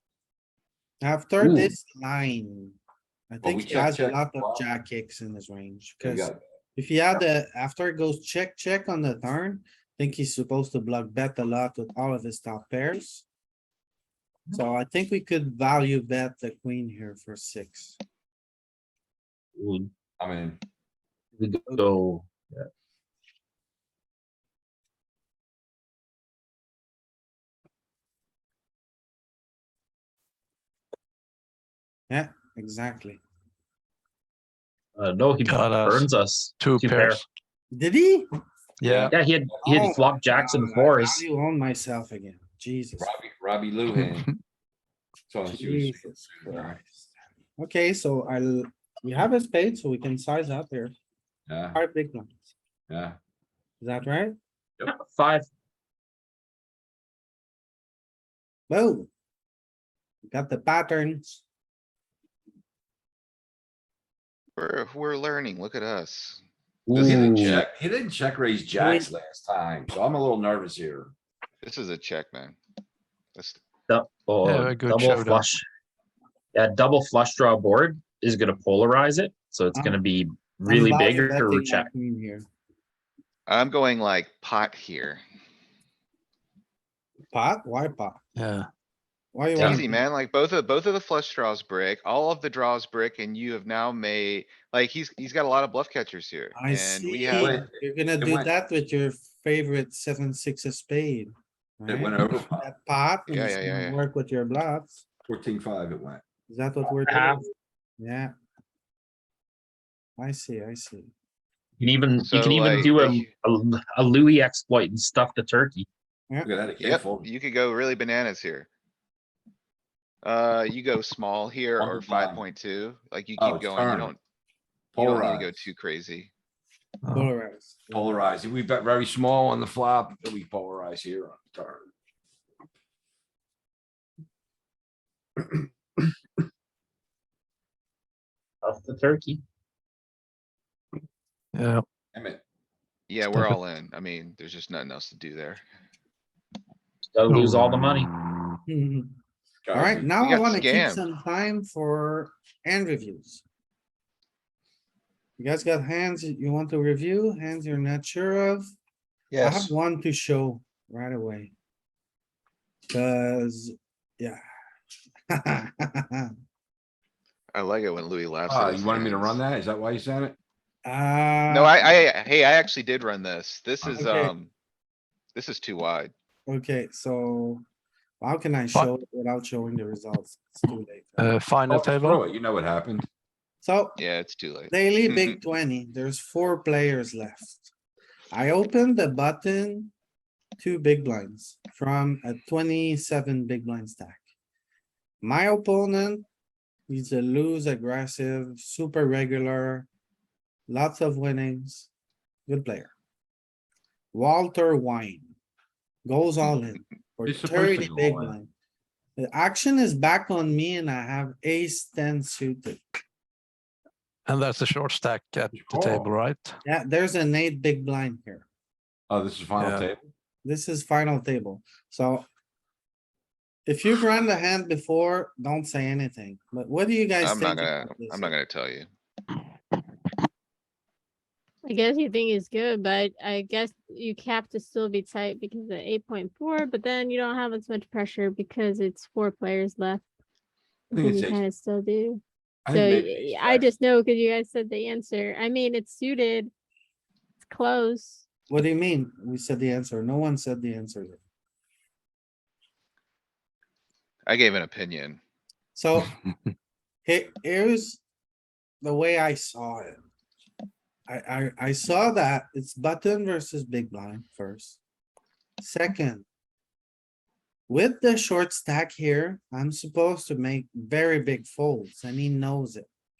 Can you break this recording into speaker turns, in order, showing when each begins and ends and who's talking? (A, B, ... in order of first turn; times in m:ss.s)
0:01.0-0:02.8 A
0:01.4-0:01.7 B
0:03.3-0:13.2 A
0:03.4-0:04.6 C
0:06.0-0:06.4 C
0:14.5-0:18.0 A
0:19.6-0:19.9 B
0:20.2-0:20.6 C
0:21.4-0:22.7 B
0:32.1-0:33.2 A
0:35.0-0:37.2 B
0:35.4-0:37.2 D
0:37.7-0:38.3 A
0:38.8-0:39.1 D
0:38.8-0:39.6 C
0:39.0-0:41.2 B
0:39.6-0:43.1 A
0:43.0-0:44.3 C
0:45.3-0:46.8 C
0:45.5-0:50.9 A
0:51.5-0:51.8 C
0:51.7-0:52.4 A
0:52.9-0:53.2 C
0:53.8-0:54.4 A
0:54.8-0:55.5 B
0:58.7-0:59.1 A
1:00.3-1:01.4 A
1:04.6-1:07.6 E
1:06.9-1:07.6 B
1:07.0-1:11.1 C
1:08.8-1:09.1 A
1:11.6-1:12.6 E
1:13.3-1:13.6 E
1:13.9-1:15.6 B
1:14.4-1:15.5 D
1:16.5-1:21.9 B
1:19.7-1:20.0 A
1:20.6-1:22.4 A
1:23.5-1:25.2 E
1:27.3-1:28.2 A
1:28.4-1:28.7 D
1:29.3-1:30.0 A
1:29.5-1:29.8 B
1:29.6-1:37.6 E
1:36.5-1:45.0 A
1:37.3-1:38.5 C
1:41.8-1:42.7 C
1:43.3-1:44.0 E
1:45.3-1:46.2 C
1:46.5-1:48.3 A
1:46.9-1:47.5 B
1:50.2-1:51.1 A
1:51.8-1:55.9 B
1:52.2-1:53.3 E
1:56.4-1:57.2 C
1:56.8-1:58.7 E
2:00.2-2:04.2 E
2:01.8-2:02.4 C
2:03.4-2:04.1 C
2:04.9-2:05.7 C
2:05.0-2:06.3 E
2:07.0-2:07.3 D
2:07.1-2:08.4 A
2:07.9-2:11.9 C
2:18.6-2:19.4 B
2:21.5-2:21.8 D
2:22.1-2:22.4 C
2:23.1-2:25.6 E
2:23.2-2:23.6 D
2:27.1-2:28.1 B
2:27.3-2:28.1 D
2:28.7-2:29.1 A
2:29.6-2:30.1 C
2:29.7-2:33.4 A
2:30.2-2:31.0 E
2:35.4-2:38.7 A
2:39.4-2:39.7 C
2:39.4-2:41.5 A
2:42.9-2:44.4 A
2:45.3-2:46.3 A
2:47.5-2:49.4 E
2:48.5-2:50.4 C
2:50.8-2:51.9 A
2:51.5-2:54.5 E
2:53.9-2:54.3 A
2:55.3-2:56.1 E
2:56.5-2:57.6 A
2:58.2-3:01.4 A
3:01.2-3:02.2 D
3:01.7-3:03.1 C
3:03.6-3:04.0 A
3:04.0-3:05.4 E
3:04.7-3:07.7 A
3:08.3-3:09.9 A
3:10.6-3:14.2 A
3:15.2-3:16.2 A
3:16.9-3:19.9 A
3:20.7-3:21.9 A
3:22.5-3:22.9 A
3:24.1-3:25.3 A
3:26.0-3:28.5 A
3:27.2-3:28.4 C
3:29.2-3:32.8 A
3:34.2-3:36.6 D
3:35.5-3:36.1 C
3:36.6-3:38.4 A
3:39.1-3:40.1 C
3:39.6-3:39.9 D
3:40.4-3:42.2 A
3:43.6-3:48.3 A
3:47.2-3:48.9 E
3:51.6-4:00.0 F
4:00.9-4:01.4 C
4:00.9-4:06.5 F
4:02.6-4:03.7 C
4:07.5-4:08.2 F
4:08.5-4:11.2 A
4:14.2-4:15.2 E
4:15.7-4:16.1 A
4:17.0-4:18.0 A
4:18.8-4:20.0 A
4:21.1-4:24.8 A
4:25.6-4:26.2 A
4:27.7-4:32.9 A